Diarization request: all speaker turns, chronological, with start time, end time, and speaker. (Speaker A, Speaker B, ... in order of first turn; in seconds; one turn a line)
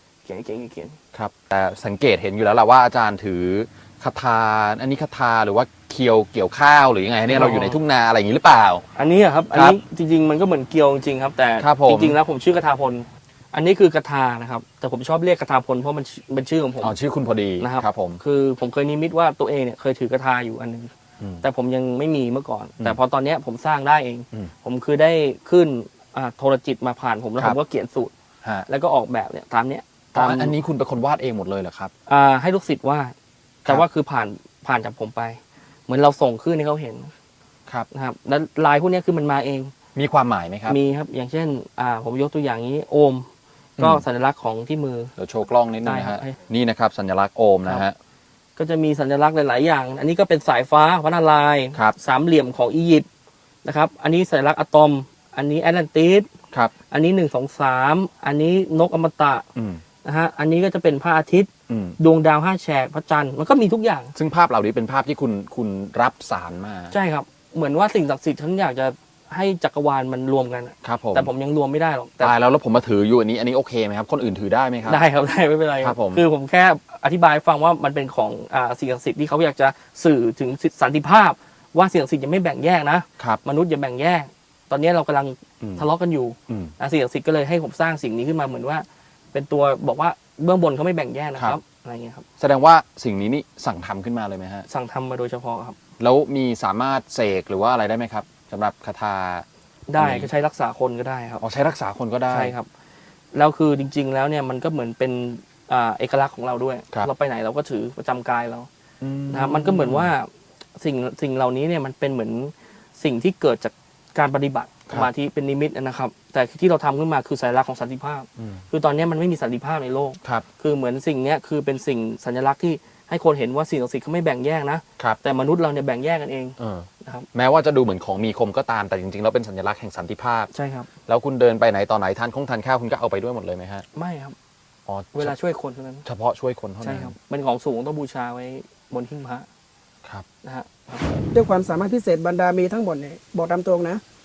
Speaker A: 0.2-1.0
Speaker B: 1.1-8.8
Speaker A: 7.3-7.8
Speaker A: 8.9-17.0
Speaker B: 9.5-9.8
Speaker B: 11.6-12.2
Speaker B: 16.8-18.2
Speaker A: 17.6-20.9
Speaker A: 21.4-28.1
Speaker A: 28.7-30.6
Speaker B: 30.1-31.9
Speaker A: 32.1-33.1
Speaker A: 33.7-37.1
Speaker A: 37.9-39.7
Speaker B: 40.0-40.8
Speaker A: 40.7-43.3
Speaker B: 43.8-44.0
Speaker A: 43.8-45.1
Speaker B: 45.2-48.0
Speaker A: 45.9-46.4
Speaker A: 48.6-53.1
Speaker A: 53.6-56.3
Speaker A: 56.9-59.5
Speaker B: 59.6-59.8
Speaker A: 60.0-64.2
Speaker B: 61.7-62.0
Speaker B: 64.2-66.9
Speaker A: 66.9-72.3
Speaker B: 70.8-71.3
Speaker B: 72.2-75.0
Speaker A: 74.9-92.3
Speaker B: 75.8-76.3
Speaker B: 85.6-85.9
Speaker B: 86.5-86.7
Speaker B: 92.4-94.7
Speaker A: 94.7-95.8
Speaker B: 96.0-99.5
Speaker A: 99.9-101.4
Speaker B: 100.0-100.3
Speaker B: 101.4-102.5
Speaker A: 102.3-102.7
Speaker A: 103.3-108.7
Speaker B: 109.0-110.1
Speaker A: 109.3-127.3
Speaker B: 118.4-118.6
Speaker B: 126.6-130.5
Speaker A: 130.5-130.9
Speaker B: 131.1-133.8
Speaker A: 133.9-134.3
Speaker B: 134.9-135.3
Speaker A: 135.1-136.1
Speaker B: 136.1-137.1
Speaker A: 136.8-139.5
Speaker A: 140.4-141.1
Speaker C: 141.3-144.0